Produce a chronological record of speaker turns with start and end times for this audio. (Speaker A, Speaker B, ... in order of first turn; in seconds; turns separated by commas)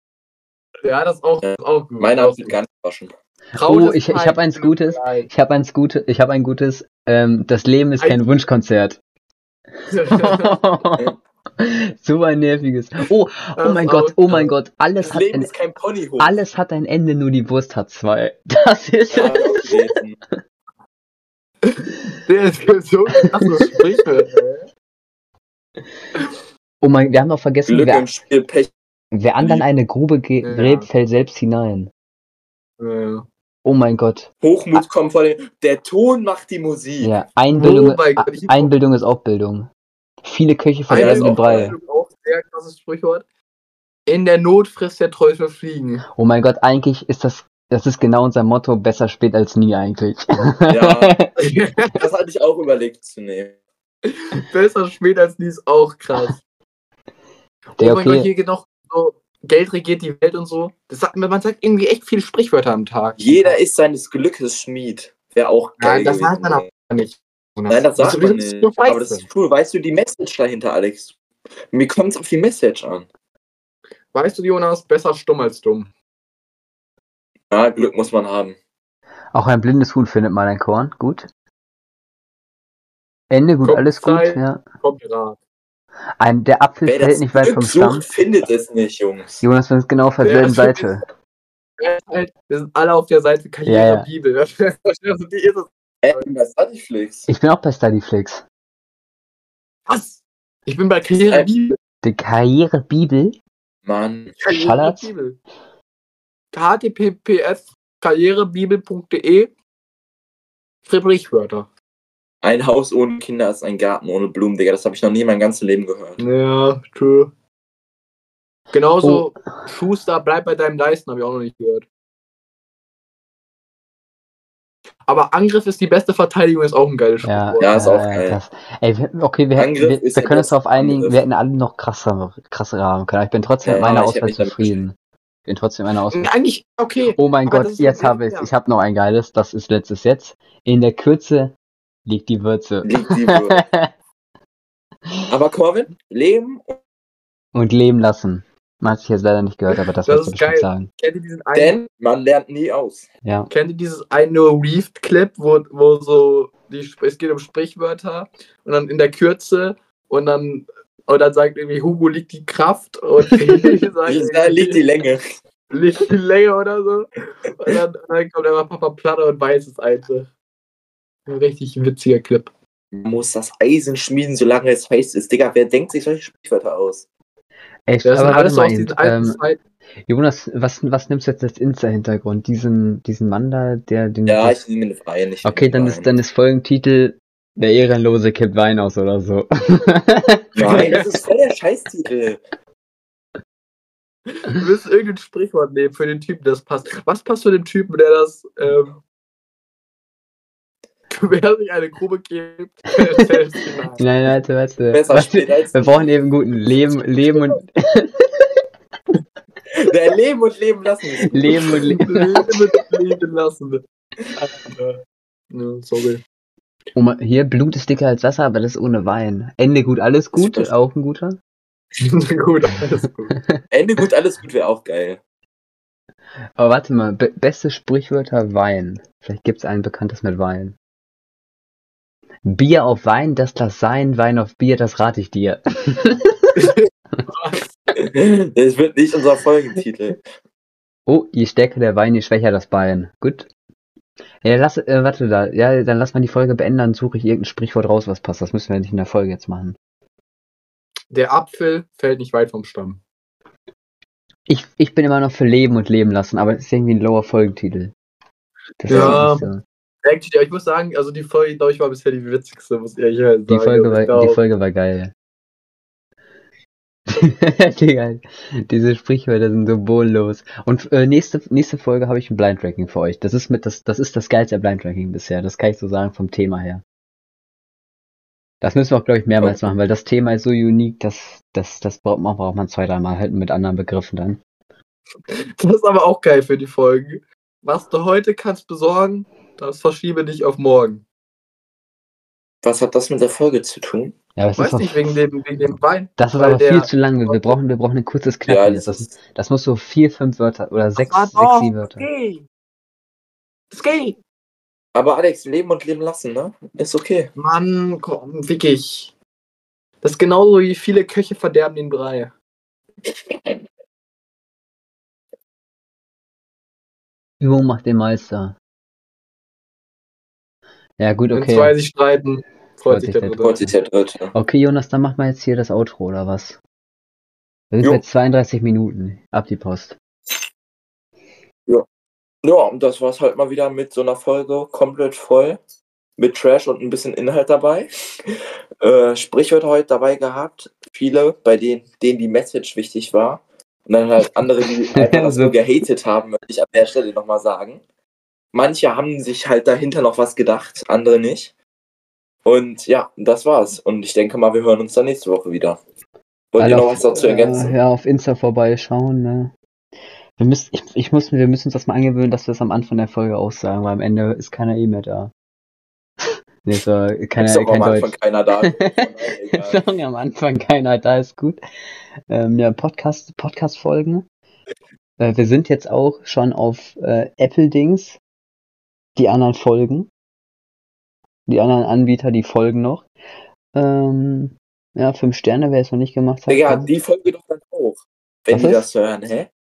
Speaker A: 0.8-2.6, Speaker B: 1.4-3.1, Speaker C: 3.5-9.0, Speaker A: 3.6-5.3, Speaker C: 9.8-15.5, Speaker A: 9.9-10.6, Speaker A: 13.6-14.5, Speaker B: 15.0-16.4, Speaker C: 16.2-19.9, Speaker B: 19.1-20.2, Speaker A: 21.6-24.7, Speaker C: 26.8-28.1, Speaker B: 27.7-28.7, Speaker C: 29.1-31.9, Speaker B: 29.4-29.7, Speaker A: 30.4-30.9, Speaker A: 32.8-33.3, Speaker C: 33.6-34.8, Speaker B: 34.4-37.1, Speaker C: 37.0-39.7, Speaker A: 37.5-38.7, Speaker C: 40.2-41.8, Speaker A: 40.9-43.2, Speaker B: 40.9-41.8, Speaker A: 44.1-46.0, Speaker C: 46.2-51.3, Speaker B: 50.7-51.2, Speaker A: 51.4-52.0, Speaker B: 52.0-53.6, Speaker A: 54.1-56.4, Speaker C: 57.8-58.3, Speaker A: 57.8-63.6, Speaker B: 63.2-66.7, Speaker A: 65.8-69.3, Speaker B: 67.7-71.2, Speaker B: 71.7-73.1, Speaker A: 74.1-75.9, Speaker B: 77.5-78.6, Speaker C: 79.3-81.3, Speaker C: 83.3-84.6, Speaker A: 83.6-85.4, Speaker C: 86.2-88.1, Speaker B: 86.8-89.4, Speaker C: 89.4-91.0, Speaker A: 90.2-91.0, Speaker A: 91.8-96.3, Speaker C: 93.7-94.1, Speaker B: 96.0-97.3, Speaker C: 97.3-98.4, Speaker A: 99.9-101.8, Speaker C: 102.0-103.4, Speaker B: 103.9-104.4, Speaker A: 104.4-105.4, Speaker C: 104.5-105.1, Speaker A: 106.5-109.5, Speaker A: 110.9-111.7, Speaker B: 112.4-116.2, Speaker A: 116.2-117.3, Speaker A: 118.7-121.9, Speaker C: 119.0-119.3, Speaker A: 125.1-127.7, Speaker C: 127.2-134.9, Speaker B: 127.6-128.4, Speaker B: 129.6-131.2, Speaker B: 133.6-134.8, Speaker C: 135.5-136.3, Speaker A: 136.1-138.5, Speaker C: 137.2-141.6, Speaker C: 142.1-143.9, Speaker B: 142.8-143.6, Speaker B: 145.3-146.8, Speaker C: 147.6-150.9, Speaker A: 150.1-151.9, Speaker B: 151.6-153.1, Speaker C: 153.2-153.5, Speaker A: 153.5-164.8, Speaker B: 164.1-165.2, Speaker A: 165.7-170.3, Speaker A: 171.3-172.5, Speaker B: 172.9-177.1, Speaker C: 177.9-179.4, Speaker A: 178.1-179.6, Speaker C: 180.1-184.6, Speaker B: 184.3-186.1, Speaker C: 185.4-190.9, Speaker B: 190.6-192.4, Speaker A: 190.7-191.0, Speaker A: 194.5-199.0, Speaker A: 201.1-204.0, Speaker C: 204.0-208.6, Speaker B: 204.9-207.0, Speaker B: 209.8-211.8, Speaker C: 211.2-212.6, Speaker A: 211.9-213.8, Speaker A: 214.4-215.0, Speaker A: 215.5-216.2, Speaker C: 216.9-221.4, Speaker B: 220.3-220.7, Speaker A: 222.0-223.4, Speaker B: 223.7-225.2, Speaker C: 226.6-230.8, Speaker C: 232.5-236.7, Speaker A: 236.6-237.7, Speaker B: 238.0-240.2, Speaker C: 241.1-243.5, Speaker C: 244.4-249.8, Speaker A: 251.1-253.0, Speaker C: 254.5-257.9, Speaker C: 258.8-259.6, Speaker A: 258.9-259.5, Speaker B: 258.9-259.2, Speaker A: 260.0-264.4, Speaker C: 263.5-265.1, Speaker C: 267.1-276.8, Speaker C: 278.6-284.4, Speaker A: 285.3-291.0, Speaker B: 292.6-294.1, Speaker C: 294.4-295.2, Speaker A: 294.6-297.6, Speaker C: 296.2-302.1, Speaker B: 298.5-299.1, Speaker A: 301.0-302.5, Speaker A: 303.7-304.2, Speaker B: 304.9-307.3, Speaker A: 307.4-309.1, Speaker A: 310.0-312.3, Speaker B: 313.1-313.6, Speaker C: 317.4-318.6, Speaker C: 321.0-321.8, Speaker A: 321.3-323.6, Speaker C: 322.9-323.7, Speaker B: 323.4-324.3, Speaker C: 324.3-326.6, Speaker C: 327.7-330.0, Speaker B: 332.4-335.6, Speaker B: 336.2-347.8, Speaker C: 344.9-345.6, Speaker B: 348.5-351.5, Speaker B: 352.4-355.8, Speaker B: 356.5-357.8, Speaker C: 356.6-359.5, Speaker C: 360.4-365.3, Speaker C: 366.6-368.9, Speaker B: 367.4-369.9, Speaker C: 369.5-371.6, Speaker C: 372.3-374.3, Speaker C: 375.2-378.2, Speaker C: 379.2-380.1, Speaker C: 381.5-383.1, Speaker C: 383.7-386.9, Speaker B: 386.5-389.5, Speaker C: 388.5-388.9